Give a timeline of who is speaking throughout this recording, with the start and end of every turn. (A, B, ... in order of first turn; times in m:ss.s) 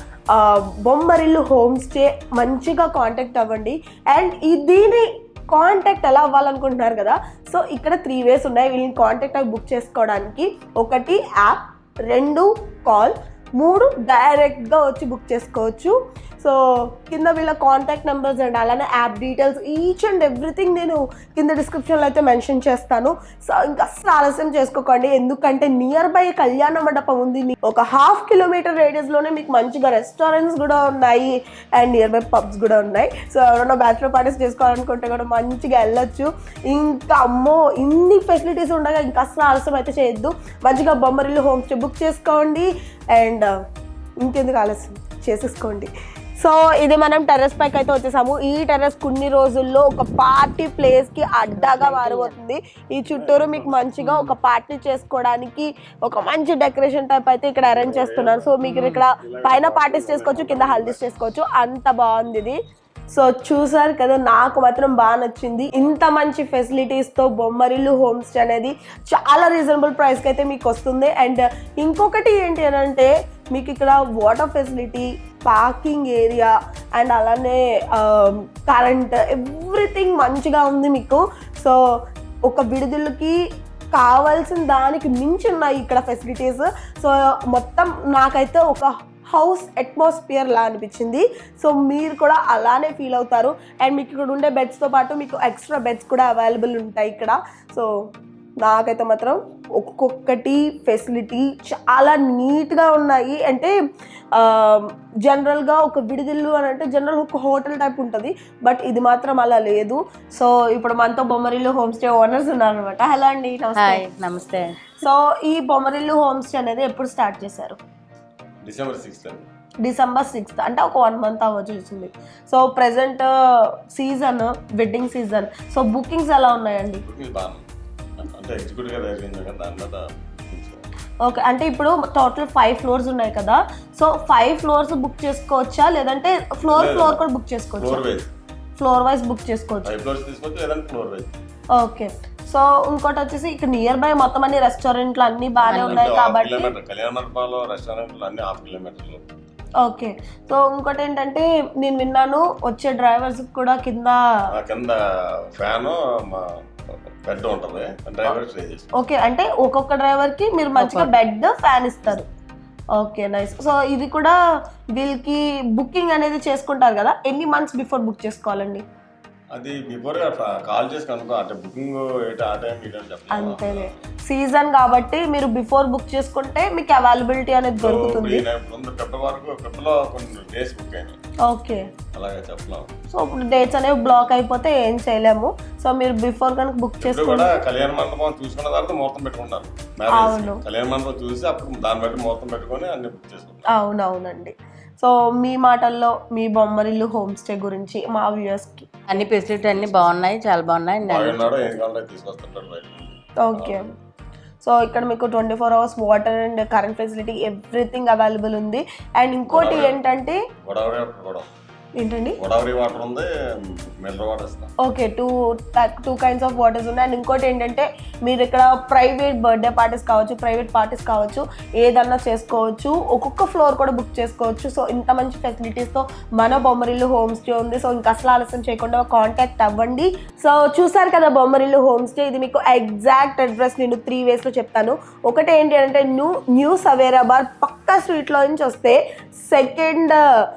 0:00.3-0:43.5 A
0:44.2-1:02.6 A
0:51.6-0:52.3 B
0:53.1-0:54.0 C
0:57.6-1:01.0 C
0:58.6-0:59.0 B
1:03.1-1:21.8 A
1:22.5-1:23.4 A
1:23.9-1:37.9 A
1:38.6-1:43.7 A
1:44.3-1:54.0 A
1:53.8-1:54.8 B
1:55.0-1:57.8 A
1:58.6-1:59.4 C
1:59.8-2:07.0 A
2:07.0-2:07.7 C
2:08.2-2:10.8 C
2:11.2-2:18.0 A
2:16.7-2:17.2 C
2:17.8-2:18.3 C
2:18.8-2:19.9 A
2:19.8-2:21.3 C
2:21.8-2:26.7 A
2:25.6-2:29.2 C
2:25.7-2:26.1 B
2:29.8-2:34.2 A
2:34.6-2:35.0 C
2:35.5-2:36.5 C
2:37.2-2:38.9 C
2:39.0-2:42.3 A
2:40.8-2:41.1 B
2:43.0-2:44.3 A
2:45.0-2:48.8 A
2:49.5-2:53.9 C
2:53.3-2:58.4 A
2:57.8-3:01.2 C
3:01.5-3:01.8 A
3:02.1-3:02.9 C
3:03.1-3:07.6 A
3:07.0-3:13.7 C
3:10.1-3:10.6 A
3:13.7-3:18.9 A
3:19.1-3:21.7 B
3:19.6-3:20.1 C
3:21.0-3:23.8 C
3:23.4-3:23.9 A
3:24.6-3:30.4 A
3:29.5-3:30.0 C
3:30.6-3:31.5 C
3:32.0-3:32.4 A
3:32.4-3:34.7 C
3:34.8-4:00.2 A